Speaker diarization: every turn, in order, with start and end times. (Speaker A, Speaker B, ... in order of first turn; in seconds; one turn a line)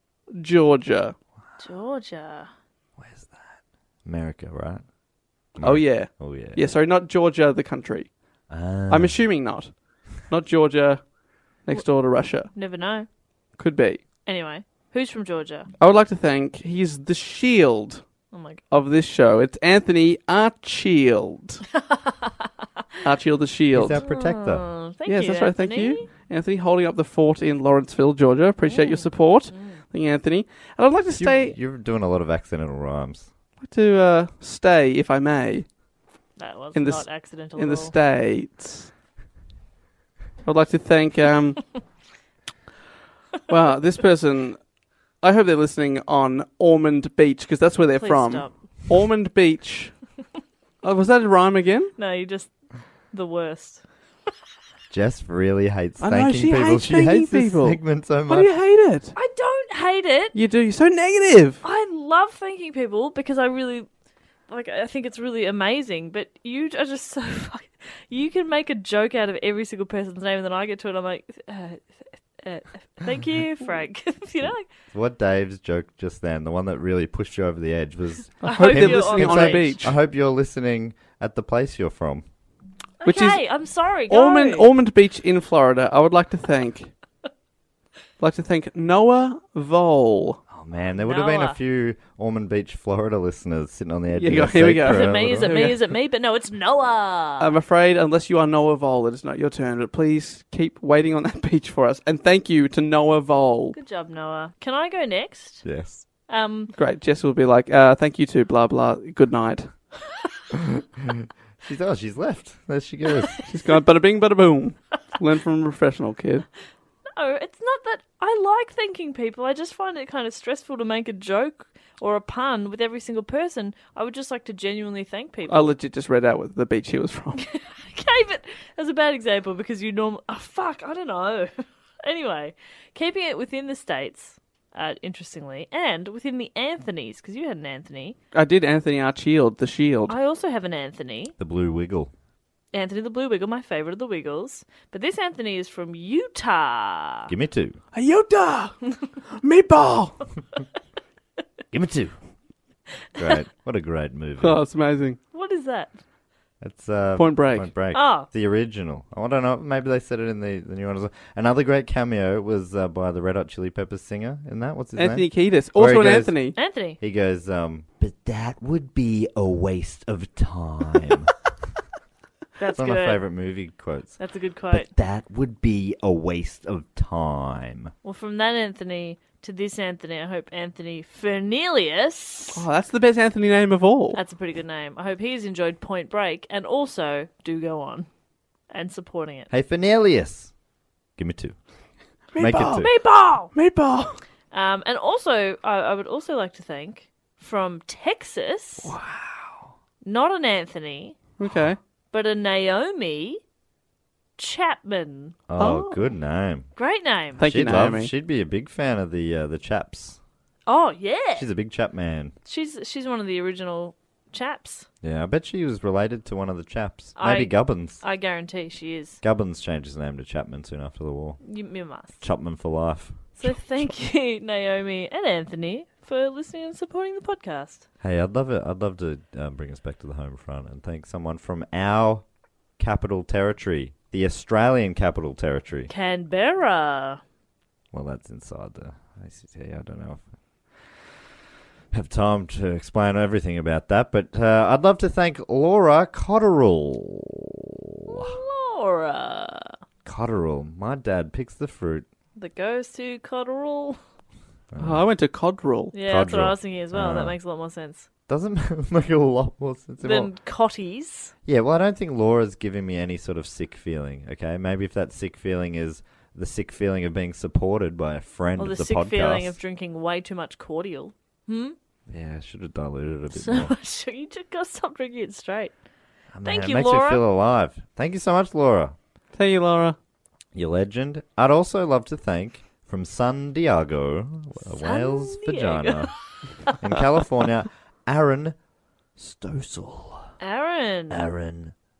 Speaker A: 0.3-1.1
Speaker B: 1.6-2.5
Speaker C: 3.0-4.8
Speaker C: 5.5-6.6
Speaker A: 5.6-8.1
Speaker C: 8.5-9.2
Speaker A: 8.9-11.1
Speaker A: 11.7-12.5
Speaker B: 12.5-13.1
Speaker A: 13.6-14.0
Speaker B: 14.2-15.7
Speaker A: 15.8-18.0
Speaker B: 18.3-18.6
Speaker A: 18.7-21.6
Speaker B: 21.8-22.3
Speaker A: 23.0-23.9
Speaker C: 23.7-24.6
Speaker B: 23.9-26.1
Speaker A: 25.1-31.5
Speaker B: 28.6-29.8
Speaker C: 31.2-33.3
Speaker A: 33.6-35.7
Speaker B: 36.4-37.9
Speaker A: 36.7-38.9
Speaker A: 40.4-41.6
Speaker A: 43.5-44.6
Speaker A: 45.2-50.0
Speaker B: 48.0-48.6
Speaker A: 50.8-51.9
Speaker B: 52.0-52.5
Speaker B: 53.1-53.8
Speaker C: 54.9-58.5
Speaker A: 56.0-59.1
Speaker B: 59.1-60.4
Speaker A: 60.3-61.6
Speaker B: 61.6-63.9
Speaker B: 64.5-74.7
Speaker C: 74.4-82.2
Speaker B: 78.4-79.8
Speaker A: 78.4-79.9
Speaker B: 83.0-84.7
Speaker A: 83.0-83.4
Speaker A: 84.1-86.9
Speaker A: 88.2-90.4
Speaker C: 90.5-95.5
Speaker B: 91.0-91.6
Speaker A: 94.1-95.8
Speaker B: 94.8-97.5
Speaker A: 97.4-103.8
Speaker B: 103.7-105.7
Speaker C: 105.6-106.0
Speaker B: 106.3-106.7
Speaker A: 106.7-109.7
Speaker C: 110.5-113.4
Speaker A: 113.5-116.5
Speaker B: 117.2-125.8
Speaker A: 125.5-127.4
Speaker B: 127.5-138.2
Speaker A: 138.3-140.1
Speaker B: 140.1-141.3
Speaker C: 141.4-142.1
Speaker B: 142.7-147.3
Speaker C: 147.3-147.8
Speaker A: 147.9-148.8
Speaker A: 149.4-150.2
Speaker C: 151.7-152.2
Speaker C: 153.2-154.6
Speaker A: 154.4-155.2
Speaker B: 155.3-156.0
Speaker C: 156.6-166.4
Speaker A: 157.2-157.7
Speaker B: 157.9-158.3
Speaker A: 164.9-166.6
Speaker B: 166.5-167.0
Speaker C: 167.0-171.3
Speaker B: 172.6-173.2
Speaker C: 172.7-174.2
Speaker B: 174.2-174.9
Speaker C: 174.7-177.9
Speaker B: 178.0-182.6
Speaker A: 182.5-184.2
Speaker B: 184.1-188.1
Speaker B: 188.7-189.5
Speaker C: 189.5-190.5
Speaker C: 191.2-191.6
Speaker A: 192.3-194.2
Speaker C: 192.3-192.9
Speaker B: 192.8-193.5
Speaker B: 194.5-198.9
Speaker A: 198.8-199.6
Speaker B: 200.0-201.2
Speaker A: 201.4-201.8
Speaker B: 202.1-203.4
Speaker B: 204.4-206.0
Speaker C: 205.5-206.7
Speaker A: 205.6-205.8
Speaker B: 206.8-207.4
Speaker A: 207.4-208.1
Speaker C: 207.4-210.2
Speaker B: 210.7-211.4
Speaker C: 211.3-212.3
Speaker B: 212.4-214.9
Speaker C: 215.0-218.0
Speaker B: 217.2-219.2
Speaker C: 219.2-221.4
Speaker B: 221.4-222.2
Speaker C: 222.2-223.9
Speaker B: 223.4-227.8
Speaker C: 228.0-232.2
Speaker C: 232.8-235.9
Speaker B: 235.9-237.2
Speaker C: 237.9-241.2
Speaker C: 241.9-248.4
Speaker B: 248.1-249.8
Speaker C: 250.0-252.1
Speaker B: 252.3-254.0
Speaker C: 254.7-255.1
Speaker A: 254.8-255.9
Speaker B: 255.9-258.1
Speaker C: 256.0-257.4
Speaker C: 258.3-260.3
Speaker B: 260.0-261.3
Speaker C: 261.4-269.6
Speaker B: 268.6-271.8
Speaker C: 272.1-273.7
Speaker B: 273.3-275.7
Speaker C: 276.3-278.9
Speaker B: 276.4-277.2
Speaker A: 279.4-280.0
Speaker C: 280.5-286.1
Speaker B: 284.7-286.7
Speaker C: 286.7-288.6
Speaker C: 289.2-290.3
Speaker B: 290.4-291.3
Speaker C: 291.1-291.7